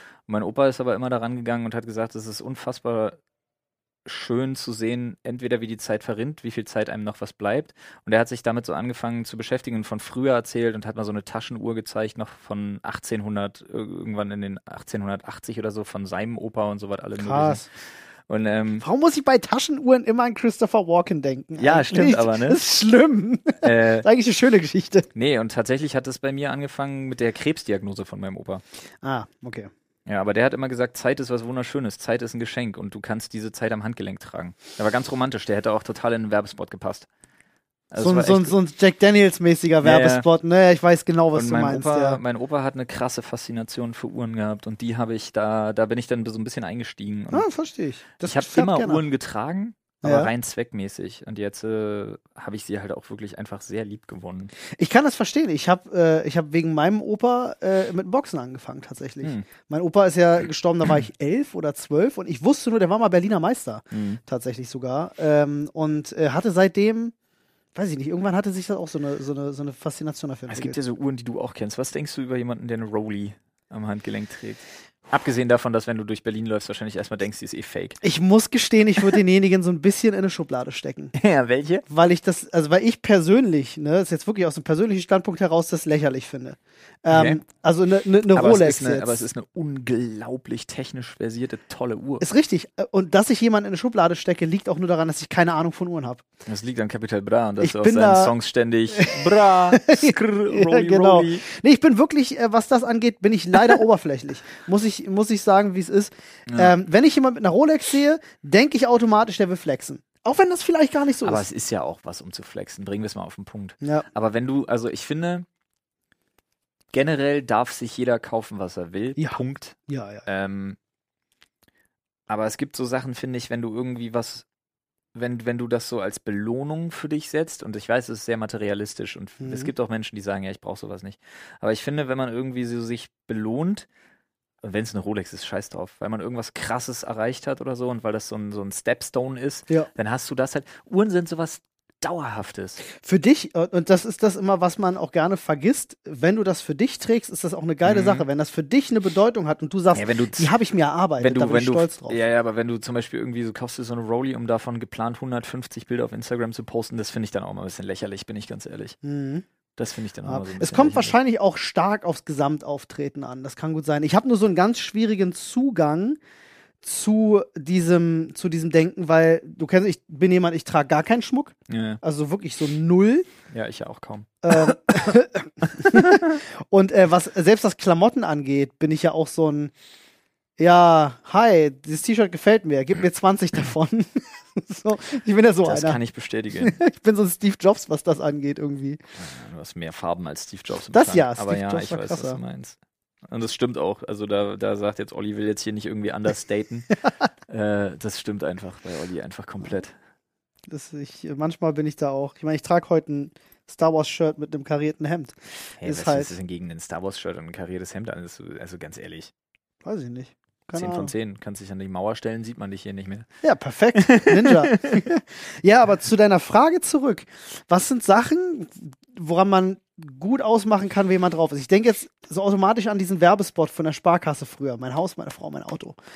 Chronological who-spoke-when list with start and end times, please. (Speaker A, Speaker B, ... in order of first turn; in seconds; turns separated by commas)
Speaker A: 0.3-3.2, Speaker A: 4.0-17.6, Speaker B: 17.2-17.7, Speaker A: 18.3-18.8, Speaker B: 18.8-25.1, Speaker A: 21.6-22.6, Speaker A: 23.6-24.1, Speaker A: 25.1-28.6, Speaker B: 29.0-29.7, Speaker A: 30.1-37.1, Speaker A: 37.9-38.5, Speaker B: 38.0-42.2, Speaker A: 39.8-40.2, Speaker A: 41.3-47.5, Speaker B: 47.3-49.0, Speaker A: 48.2-54.5, Speaker B: 50.0-50.3, Speaker B: 54.7-67.1, Speaker A: 59.2-59.5, Speaker A: 63.9-64.2, Speaker B: 67.7-70.8, Speaker A: 70.5-78.0, Speaker B: 78.0-81.1, Speaker A: 81.1-81.8, Speaker B: 81.9-89.3, Speaker A: 87.1-87.4, Speaker A: 88.3-92.3, Speaker B: 92.2-96.2, Speaker A: 96.5-101.4, Speaker B: 97.6-98.3, Speaker B: 98.9-111.4, Speaker A: 106.5-106.7, Speaker A: 111.2-115.5, Speaker A: 116.9-120.8, Speaker B: 119.2-120.2, Speaker A: 122.3-124.5, Speaker A: 125.1-133.8, Speaker B: 129.4-129.7, Speaker A: 134.6-142.8, Speaker B: 143.0-152.2, Speaker A: 147.8-148.2, Speaker A: 149.9-150.5, Speaker A: 151.2-158.9, Speaker B: 159.0-159.4, Speaker A: 159.8-161.1, Speaker B: 160.2-166.2, Speaker B: 166.8-173.3, Speaker A: 171.7-172.0, Speaker A: 173.5-175.1, Speaker B: 174.4-179.7, Speaker A: 175.6-176.4, Speaker B: 180.6-186.0, Speaker A: 185.6-186.8, Speaker B: 186.6-189.0, Speaker A: 189.2-192.8, Speaker B: 190.9-192.4, Speaker A: 193.3-197.0, Speaker A: 197.5-199.9, Speaker B: 200.7-206.3, Speaker A: 205.8-209.3, Speaker B: 209.8-211.1, Speaker A: 210.7-213.3, Speaker B: 213.4-226.0, Speaker A: 213.9-215.0